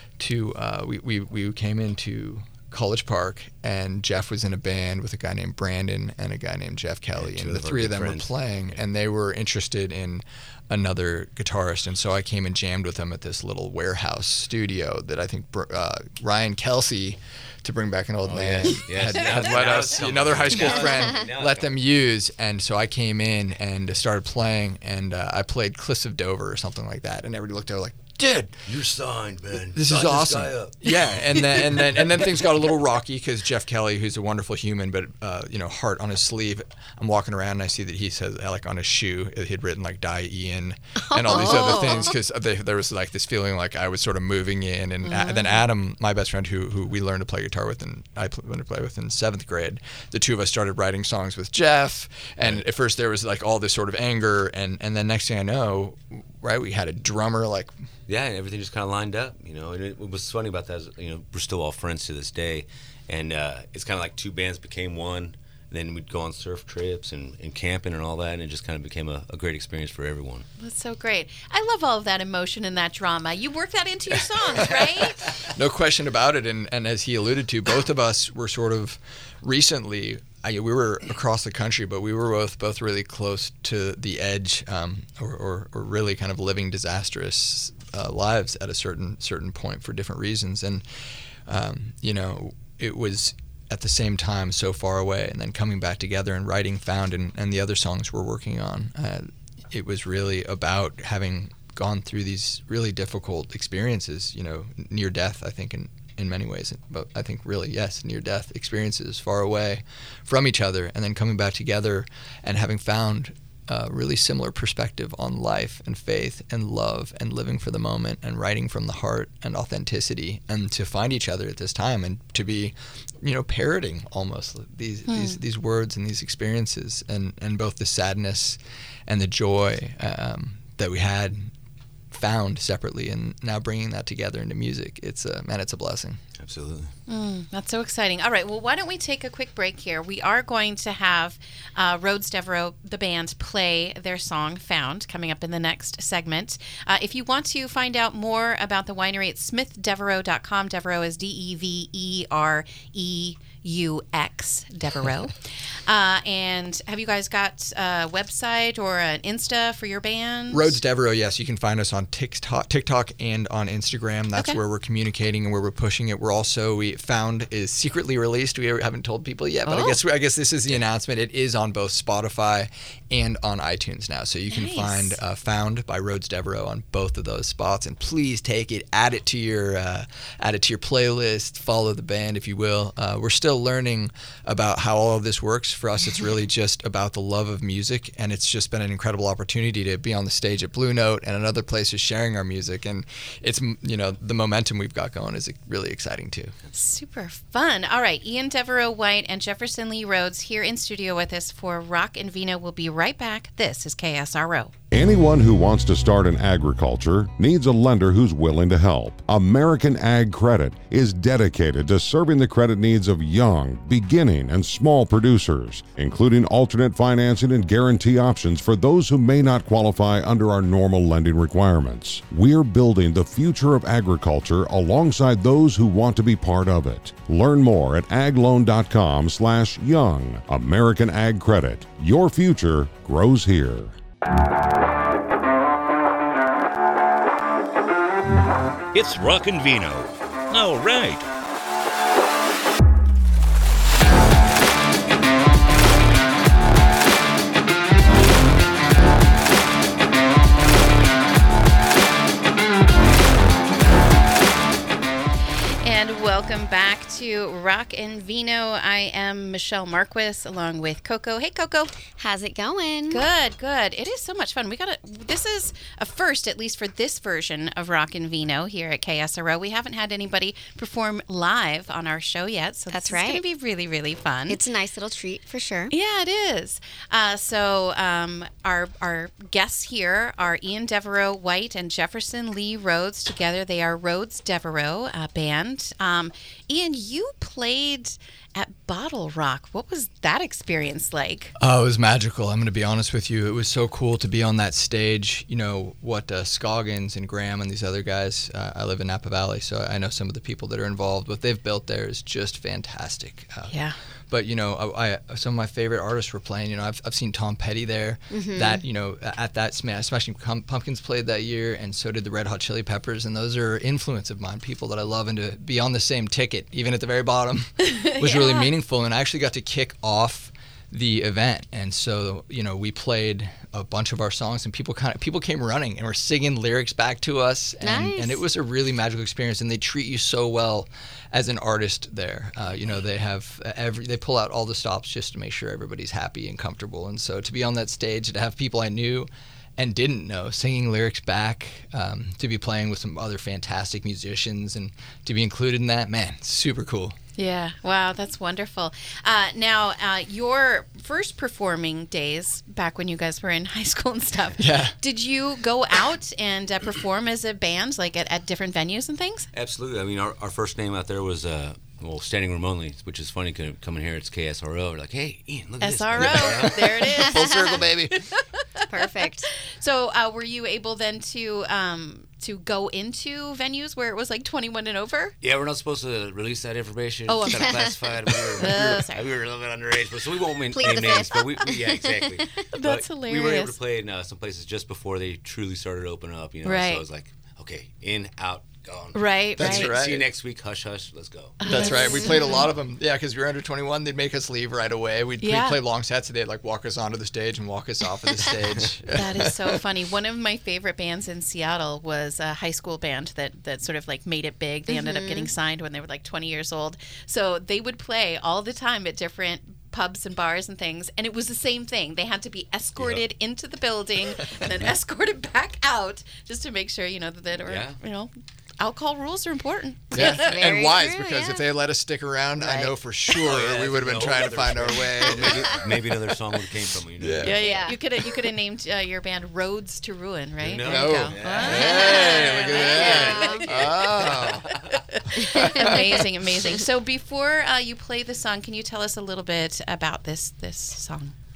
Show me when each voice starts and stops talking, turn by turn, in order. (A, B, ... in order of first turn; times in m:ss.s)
0:00.2-0:28.6 A
0:07.2-0:08.3 B
0:18.3-0:21.8 B
0:28.7-0:32.2 B
0:29.7-0:57.7 A
0:41.0-0:42.1 C
0:41.3-0:42.1 D
0:45.1-0:45.4 D
0:58.1-1:10.5 B
1:10.6-1:15.3 D
1:15.3-1:30.8 A
1:31.5-2:11.5 A
2:05.1-2:05.4 D
2:12.1-2:16.2 A
2:16.4-2:16.9 B
2:17.1-2:40.8 D
2:40.5-3:16.5 A
2:49.6-2:50.0 D
2:54.5-2:55.2 D
3:16.7-3:24.7 D
3:24.9-3:54.0 E
3:58.9-4:01.3 F
4:15.8-4:21.9 D
4:22.2-4:23.3 C
4:23.1-4:34.6 D
4:32.9-4:33.4 C
4:34.5-4:35.9 C
4:35.9-4:51.5 D
4:51.6-5:03.8 A
5:03.7-5:04.0 D
5:04.3-5:47.2 A
5:08.3-5:08.8 C
5:17.8-5:18.7 D
5:27.8-5:28.4 C
5:47.4-5:59.5 D
5:54.6-5:54.9 A
5:59.5-6:07.9 B
6:05.8-6:15.3 D
6:06.2-6:08.1 A
6:07.3-6:07.8 C
6:08.9-6:09.5 C
6:15.4-6:31.6 B
6:17.3-6:17.9 D
6:17.5-6:18.4 C
6:18.6-6:19.2 D
6:20.7-6:22.4 C
6:22.7-6:23.7 D
6:26.6-6:27.0 D
6:29.1-6:29.9 D
6:29.6-6:30.2 A
6:31.6-6:32.7 D
6:31.7-6:39.8 A
6:35.4-6:35.8 D
6:39.1-7:00.6 D
6:44.9-6:45.5 C
6:53.0-6:53.2 B
6:57.6-6:58.0 B
7:00.1-7:06.0 A
7:00.1-7:01.7 C
7:02.6-7:02.9 C
7:03.4-7:07.6 B
7:05.0-7:05.8 C
7:07.2-7:07.6 A
7:07.4-7:21.3 D
7:07.6-7:08.0 C
7:10.6-7:15.0 B
7:10.8-7:14.7 A
7:11.7-7:13.7 C
7:15.3-7:16.2 C
7:15.5-7:15.9 A